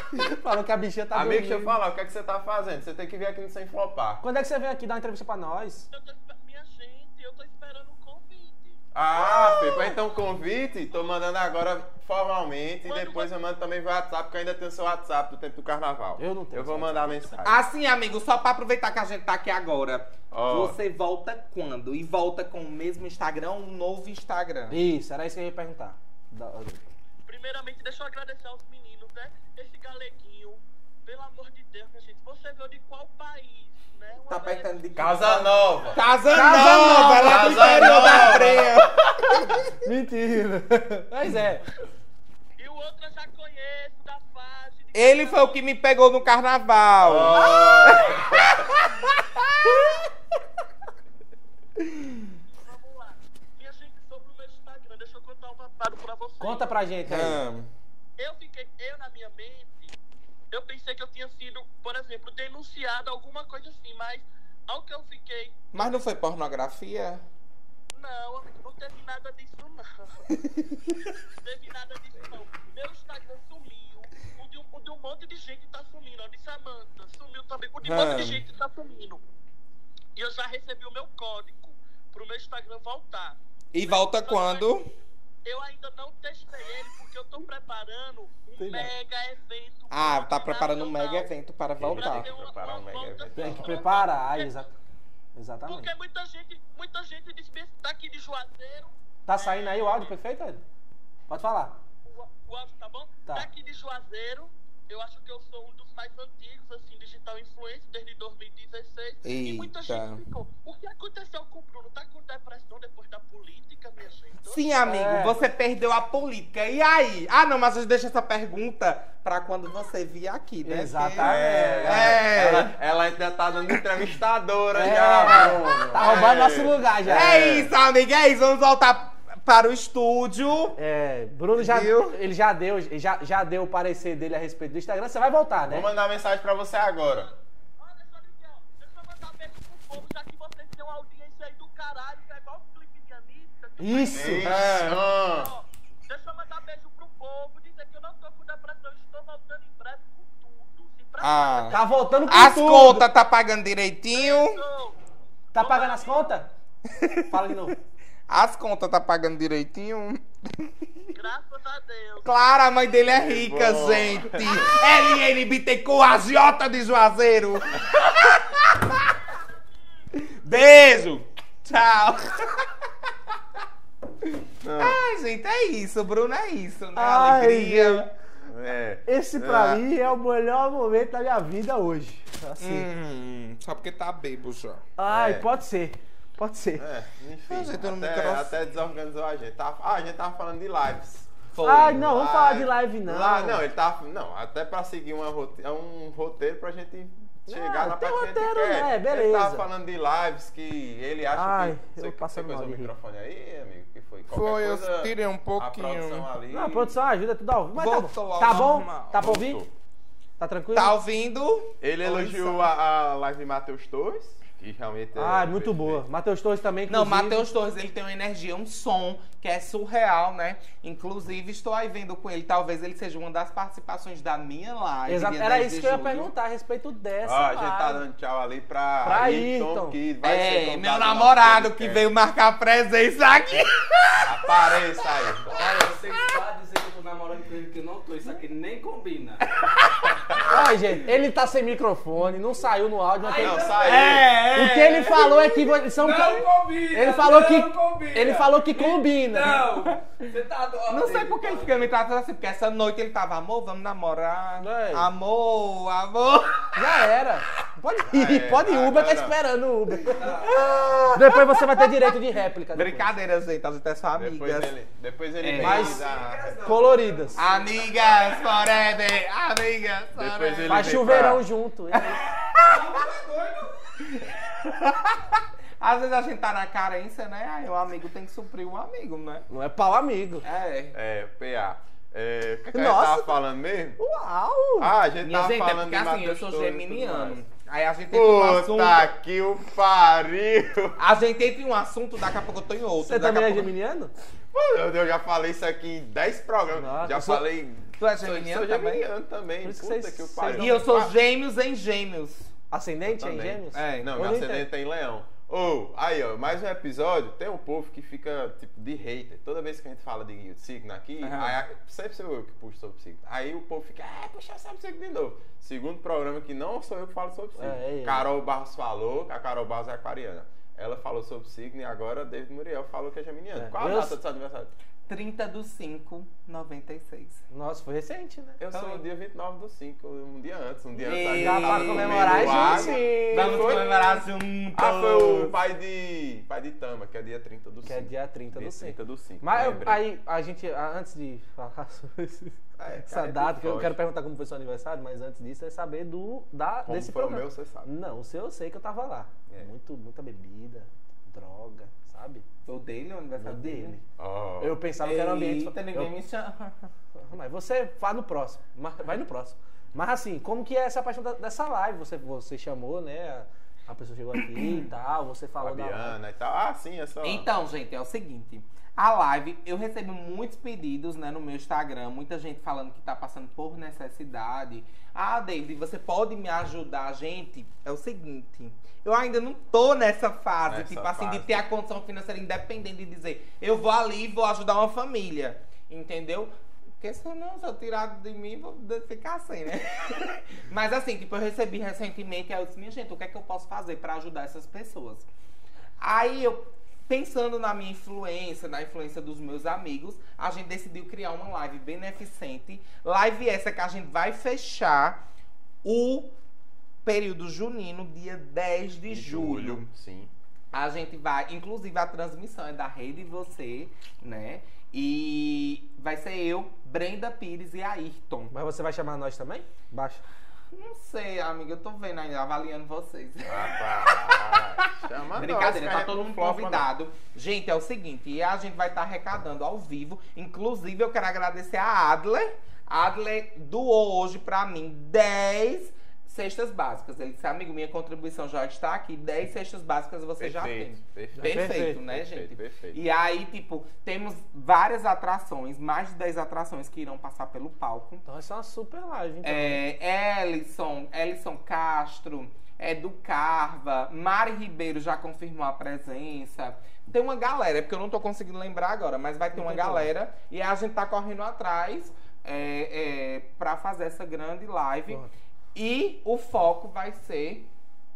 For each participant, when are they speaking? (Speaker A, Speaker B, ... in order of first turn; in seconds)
Speaker A: 0.1-1.8, 4.2-5.9, 16.2-17.3, 24.7-26.8, 36.3-38.4, 39.7-41.7, 56.4-57.4, 88.6-88.9, 93.3-94.8, 95.3-95.9, 99.3-100.6, 101.3-101.8, 114.8-115.4, 120.6-122.3, 124.7-127.4, 130.8-135.9, 143.8-144.6, 151.7-153.1, 155.5-156.5, 157.3-157.8, 176.9-178.1, 179.1-182.9, 185.0-186.9, 191.6-193.6, 197.5-199.7, 201.3-202.9, 206.5-209.7, 210.4-211.0, 215.2-217.5, 225.1-228.1, 229.0-230.0, 240.5-249.7, 254.6-255.1, 256.8-260.4, 261.1-263.1, 265.6-266.0, 266.6-267.4, 270.7-272.4, 279.5-280.4, 282.7-283.4, 284.0-284.9, 293.0-294.1, 296.8-297.4, 299.6-300.9, 302.7-304.7, 317.6-318.3, 323.6-324.2, 327.5-328.6, 331.3-333.8, 337.9-352.5, 353.4-354.0, 354.6-356.1, 357.2-366.2, 418.5-420.2, 441.4-442.0, 448.3-449.8, 459.5-460.1
Speaker B: 1.1-4.2, 8.9-17.6, 20.3-20.8, 35.0-36.0, 37.0-39.5, 47.0-48.5, 91.8-93.8, 121.2-127.7, 135.7-137.3, 144.1-145.5, 163.1-164.8, 174.6-175.0, 178.5-179.8, 185.1-185.5, 186.8-207.0, 209.1-209.7, 211.8-216.0, 227.2-232.1, 234.2-235.6, 243.4-244.3, 258.1-259.4, 264.2-266.5, 270.2-271.4, 280.9-284.0, 284.8-287.4, 288.1-291.0, 294.5-301.1, 303.1-324.7, 328.6-340.1, 342.8-344.0, 346.9-347.9, 354.2-354.8, 365.6-367.5, 380.7-381.6, 409.1-410.3, 423.4-426.9, 440.4-443.0
Speaker C: 5.9-8.8, 9.4-10.2, 12.8-13.3, 27.3-36.1, 42.6-45.6, 47.3-48.2, 52.5-56.7, 58.2-60.0, 60.5-65.6, 67.9-70.2, 71.3-79.2, 80.2-84.7, 85.5-91.3, 91.9-94.7, 95.7-100.1, 102.0-114.7, 137.2-152.4, 154.2-155.0, 155.6-156.4, 161.1-162.3
Speaker D: 17.4-24.8, 34.3-39.5, 44.9-50.0, 52.0-52.3, 57.1-57.7, 65.7-67.2, 70.3-70.9, 77.8-78.4, 83.7-84.8, 89.9-92.3, 109.2-110.2, 114.5-122.7, 127.1-130.8, 131.6-132.2, 144.4-145.0, 151.2-154.6, 156.9-157.6, 158.3-161.1, 162.2-169.1, 170.1-172.7, 174.8-178.1, 182.6-184.8, 187.5-188.6, 191.5-192.0, 204.3-206.3, 207.8-209.2, 210.7-212.7, 216.9-226.3, 230.2-234.8, 239.6-240.4, 243.7-245.7, 249.8-250.2, 250.9-257.0, 260.0-262.1, 262.7-264.7, 265.4-271.1, 271.9-279.4, 280.4-281.0, 285.2-289.1, 291.0-293.7, 298.0-299.1, 300.5-302.5, 303.7-304.1, 311.2-311.6, 325.1-327.4, 328.7-329.0, 331.0-335.6, 352.7-354.0, 355.0-356.9, 364.6-364.9, 367.2-395.3, 396.0-405.2, 405.8-406.3, 407.1-409.9, 410.7-418.5, 420.7-448.2, 449.4-465.2, 465.8-467.7
Speaker E: 235.5-239.4, 243.2-244.5, 245.9-251.8, 260.2-261.0, 266.2-267.7, 272.6-273.2